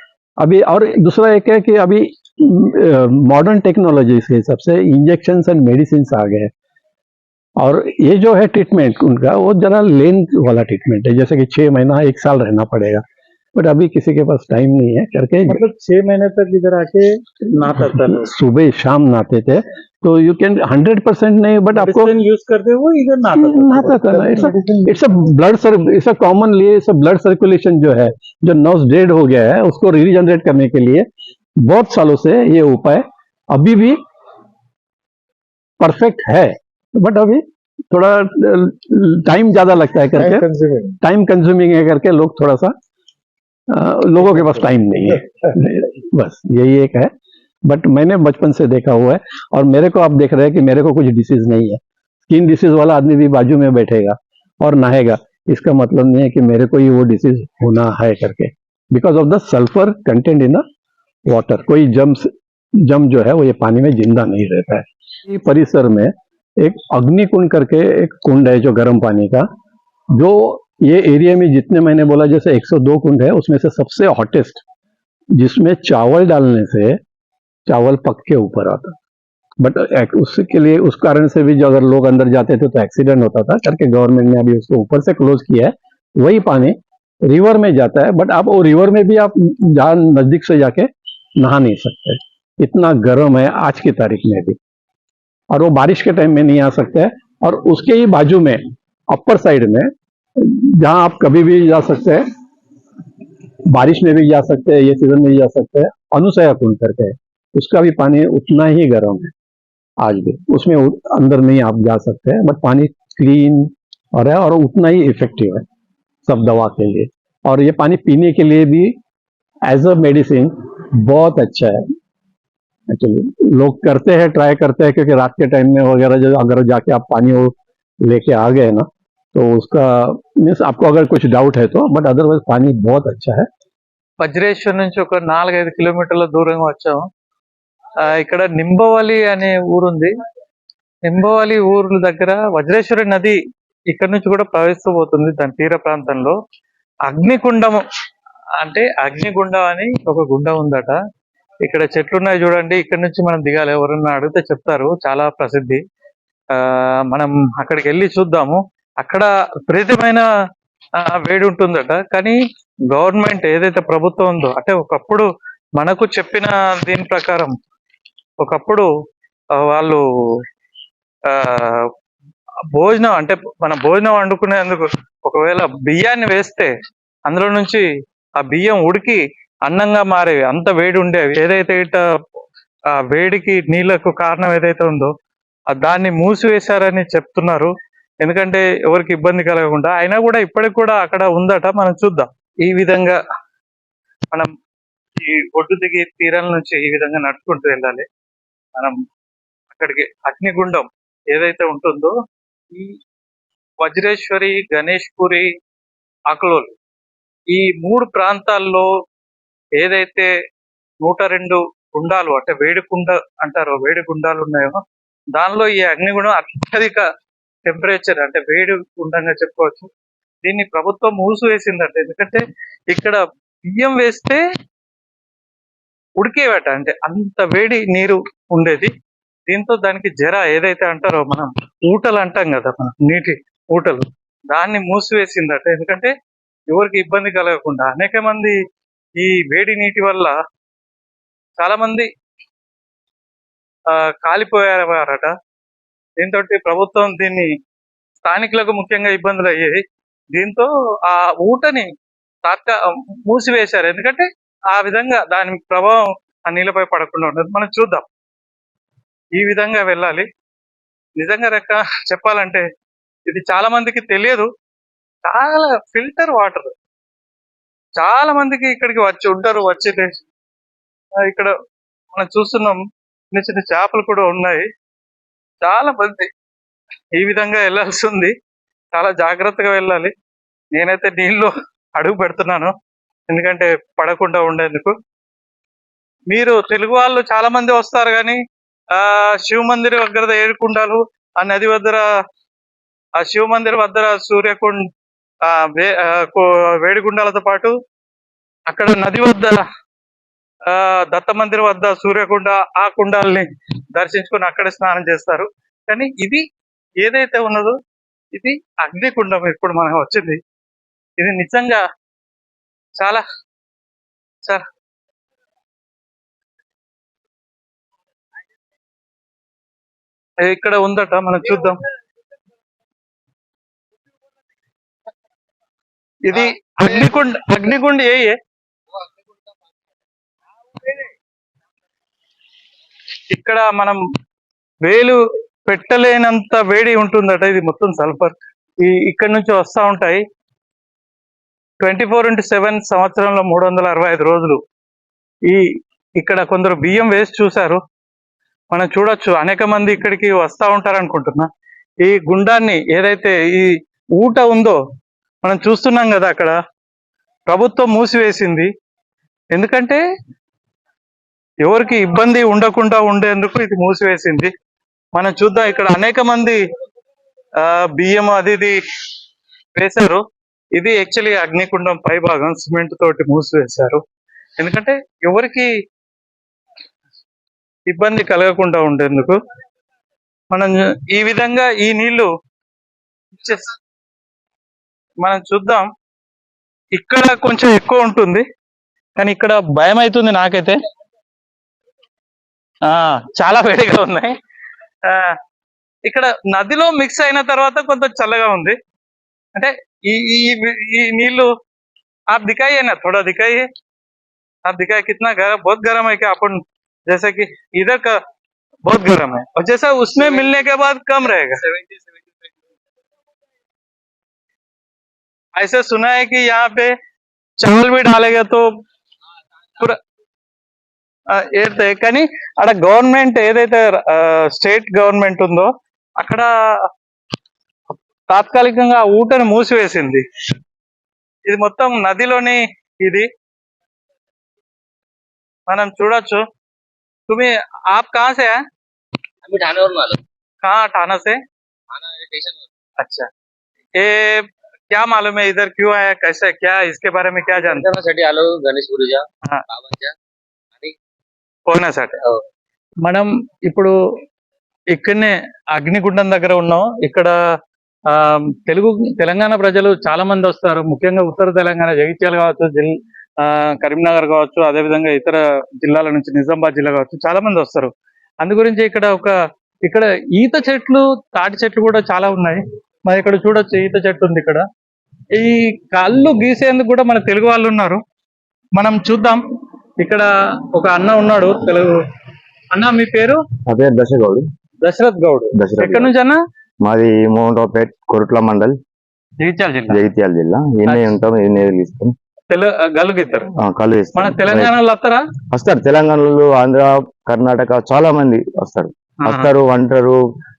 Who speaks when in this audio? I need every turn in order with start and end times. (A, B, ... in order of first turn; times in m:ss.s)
0:00.4-0:06.5 A
0:07.6-0:13.0 A
0:13.5-0:15.6 A
0:15.5-0:18.3 B
0:17.9-0:22.1 A
0:21.7-0:24.9 B
0:23.3-0:31.1 A
0:31.6-0:34.0 A
0:35.8-0:40.5 A
0:41.0-0:42.7 A
0:43.7-0:47.1 A
0:47.6-1:00.6 A
1:01.3-1:09.5 A
1:10.1-1:14.6 A
1:15.3-1:17.0 A
1:17.7-1:19.0 A
1:19.6-1:34.6 A
1:35.5-1:42.2 A
1:43.7-1:49.3 A
1:50.0-1:55.6 A
1:56.2-1:59.0 A
1:59.7-2:01.8 A
2:02.9-2:13.5 A
2:14.2-2:17.0 B
2:18.0-2:20.1 B
2:21.0-2:23.4 B
2:23.9-2:26.4 B
2:27.1-2:27.8 B
2:28.6-2:31.0 B
2:31.6-2:35.8 B
2:36.5-2:40.2 B
2:41.0-2:42.4 B
2:42.9-2:45.3 B
2:45.8-2:47.5 B
2:48.4-2:48.9 B
2:49.6-2:50.0 B
2:51.3-2:51.8 B
2:52.7-2:56.7 B
2:57.3-2:57.8 B
2:58.4-3:02.0 B
3:02.9-3:05.1 B
3:05.7-3:07.7 B
3:08.2-3:13.2 B
3:15.2-3:18.0 B
3:19.7-3:22.1 B
3:23.8-3:25.5 B
3:26.3-3:26.7 B
3:27.5-3:28.9 B
3:29.8-3:30.3 B
3:31.0-3:34.8 B
3:35.4-3:37.0 B
3:37.6-3:39.9 B
3:40.4-3:44.4 B
3:46.2-3:48.9 B
3:49.5-3:56.1 B
3:56.7-3:58.6 B
3:59.2-4:00.3 B
4:01.6-4:02.1 B
4:03.9-4:05.3 B
4:06.2-4:07.5 B
4:08.2-4:09.8 B
4:10.3-4:11.9 B
4:12.4-4:18.0 B
4:19.4-4:20.3 B
4:21.2-4:22.6 B
4:23.3-4:24.5 B
4:25.2-4:26.7 B
4:28.0-4:30.2 B
4:31.2-4:31.5 B
4:32.1-4:34.7 B
4:35.6-4:36.3 B
4:37.2-4:38.3 B
4:38.9-4:40.1 B
4:40.7-4:42.7 B
4:43.3-4:45.0 B
4:46.3-4:48.4 B
4:48.9-4:52.0 B
4:53.2-4:54.8 B
4:55.4-4:57.7 B
4:58.7-4:59.6 B
5:00.7-5:06.4 B
5:07.0-5:07.8 B
5:08.3-5:10.4 B
5:11.2-5:11.8 B
5:13.0-5:13.2 B
5:20.4-5:21.8 B
5:26.2-5:28.4 B
5:33.3-5:34.0 B
5:34.8-5:40.2 B
5:41.8-5:44.6 B
5:46.2-5:47.8 B
5:48.7-5:51.5 B
5:52.0-5:54.8 B
5:55.4-5:56.5 B
5:57.5-5:58.7 B
5:59.5-6:00.0 B
6:01.6-6:04.5 B
6:05.1-6:06.6 B
6:07.6-6:08.8 B
6:09.8-6:10.2 B
6:10.7-6:14.0 B
6:14.6-6:15.7 B
6:17.9-6:19.4 B
6:20.5-6:22.3 B
6:23.4-6:23.7 B
6:25.2-6:25.9 B
6:26.9-6:28.4 B
6:29.2-6:30.8 B
6:32.8-6:34.4 B
6:35.1-6:35.4 B
6:36.0-6:38.8 B
6:39.5-6:41.5 B
6:42.3-6:43.7 B
6:44.7-6:48.2 B
6:48.8-6:51.7 B
6:55.6-6:56.9 B
6:57.6-6:58.6 B
7:01.3-7:06.5 B
7:08.3-7:10.2 B
7:11.5-7:13.3 B
7:15.7-7:16.4 B
7:17.3-7:18.6 B
7:19.4-7:20.2 C
7:20.6-7:21.4 B
7:21.9-7:22.7 C
7:23.0-7:23.3 B
7:24.0-7:27.8 B
7:27.5-7:30.1 C
7:31.7-7:32.2 B
7:33.0-7:33.9 B
7:34.9-7:37.3 B
7:38.1-7:49.3 B
7:49.8-7:54.6 B
7:55.4-7:58.0 B
7:58.7-7:59.4 B
8:00.0-8:02.0 B
8:02.7-8:03.4 B
8:03.6-8:04.4 D
8:04.8-8:06.4 B
8:05.5-8:06.1 D
8:06.8-8:08.8 D
8:09.4-8:10.0 B
8:09.9-8:12.1 D
8:10.9-8:11.1 B
8:12.5-8:13.5 B
8:13.6-8:14.7 D
8:14.1-8:15.2 B
8:15.5-8:20.2 D
8:19.2-8:19.5 B